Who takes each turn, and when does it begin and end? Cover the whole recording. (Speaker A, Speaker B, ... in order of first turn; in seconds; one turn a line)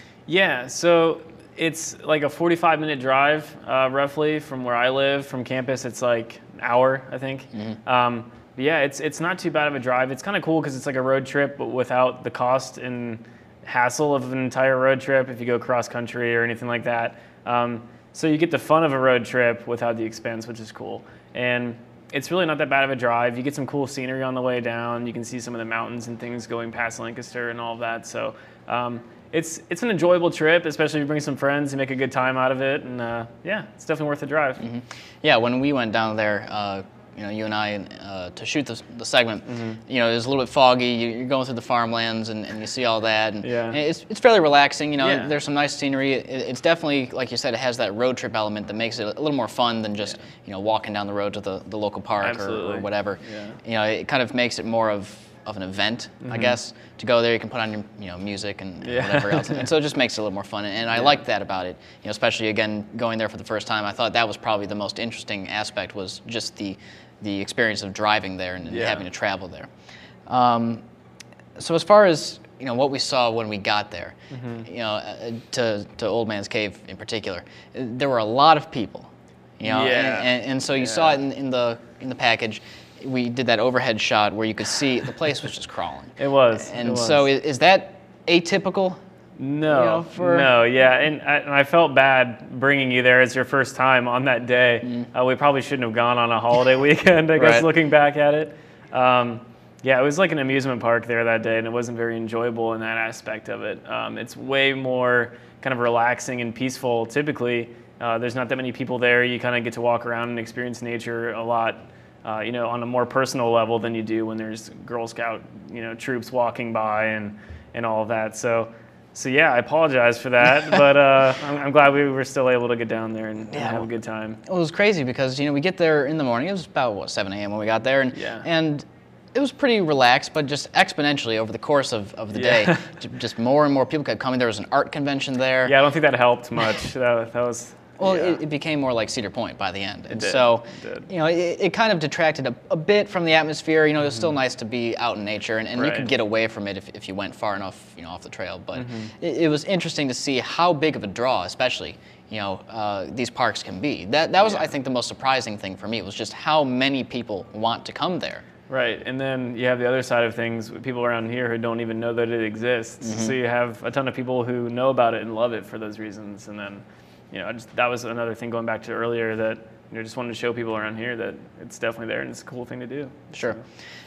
Speaker A: 0.3-34.6
Speaker B: 7.5-7.8
Speaker B: 34.6-69.7
Speaker A: 39.5-39.8
Speaker A: 43.4-43.8
Speaker A: 45.0-45.4
Speaker A: 52.2-53.6
Speaker A: 56.2-56.6
Speaker A: 58.8-59.7
Speaker A: 60.9-61.2
Speaker A: 68.7-69.1
Speaker B: 70.3-70.8
Speaker B: 71.6-89.0
Speaker A: 74.3-74.7
Speaker A: 79.6-81.2
Speaker A: 86.2-87.3
Speaker A: 89.4-124.4
Speaker B: 89.6-90.9
Speaker B: 94.8-95.1
Speaker B: 97.3-97.7
Speaker B: 123.5-135.8
Speaker A: 128.1-128.5
Speaker A: 132.3-132.9
Speaker A: 135.6-138.4
Speaker B: 138.0-158.5
Speaker A: 140.1-141.1
Speaker A: 144.0-144.3
Speaker A: 145.7-146.1
Speaker A: 148.7-149.1
Speaker A: 154.4-154.7
Speaker A: 158.7-173.6
Speaker B: 163.0-163.4
Speaker B: 173.3-173.6